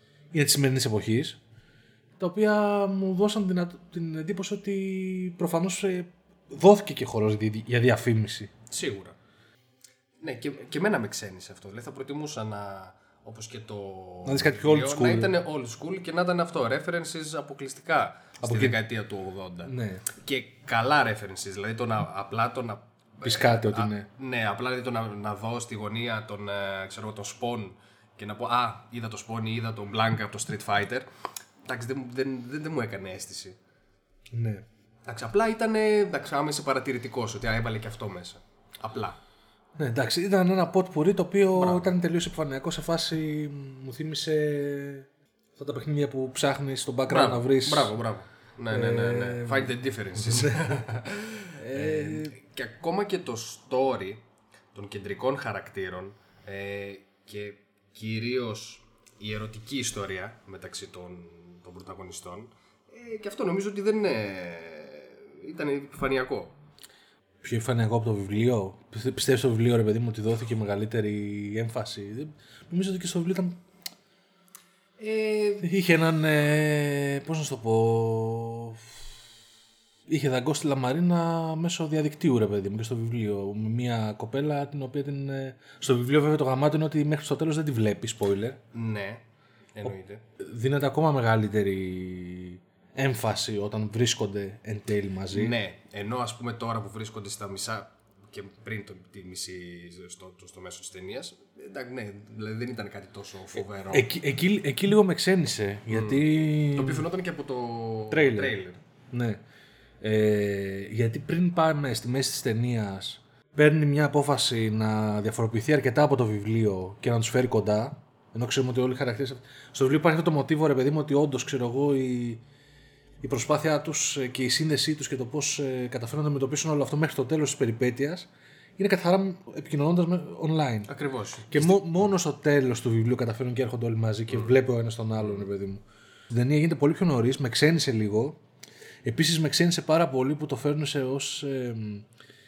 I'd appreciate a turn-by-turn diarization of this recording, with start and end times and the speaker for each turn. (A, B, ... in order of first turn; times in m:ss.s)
0:00.3-0:01.4 A
0:02.2-0:08.5 A
0:08.7-0:09.2 B
0:10.2-0:31.1 B
0:14.2-0:15.4 A
0:18.4-0:18.8 A
0:19.6-0:20.0 A
0:23.2-0:24.1 A
0:31.7-0:33.6 B
0:34.3-0:34.6 A
0:35.1-0:39.2 B
0:39.8-0:47.9 A
0:41.6-0:41.9 B
0:47.1-0:54.2 B
0:48.7-0:51.0 A
0:51.6-0:52.4 A
0:54.7-1:06.5 B
1:07.4-1:13.6 A
1:15.0-1:15.7 B
1:15.6-1:19.1 A
1:20.1-1:28.6 A
1:28.7-1:29.2 B
1:29.8-1:30.2 B
1:30.4-1:35.6 A
1:35.3-1:44.1 B
1:43.9-1:47.1 A
1:45.9-1:48.8 B
1:48.1-1:48.6 A
1:49.1-1:49.4 A
1:50.0-2:02.4 A
2:03.2-2:10.9 A
2:10.9-2:12.1 B
2:11.5-2:18.4 A
2:19.0-2:22.1 A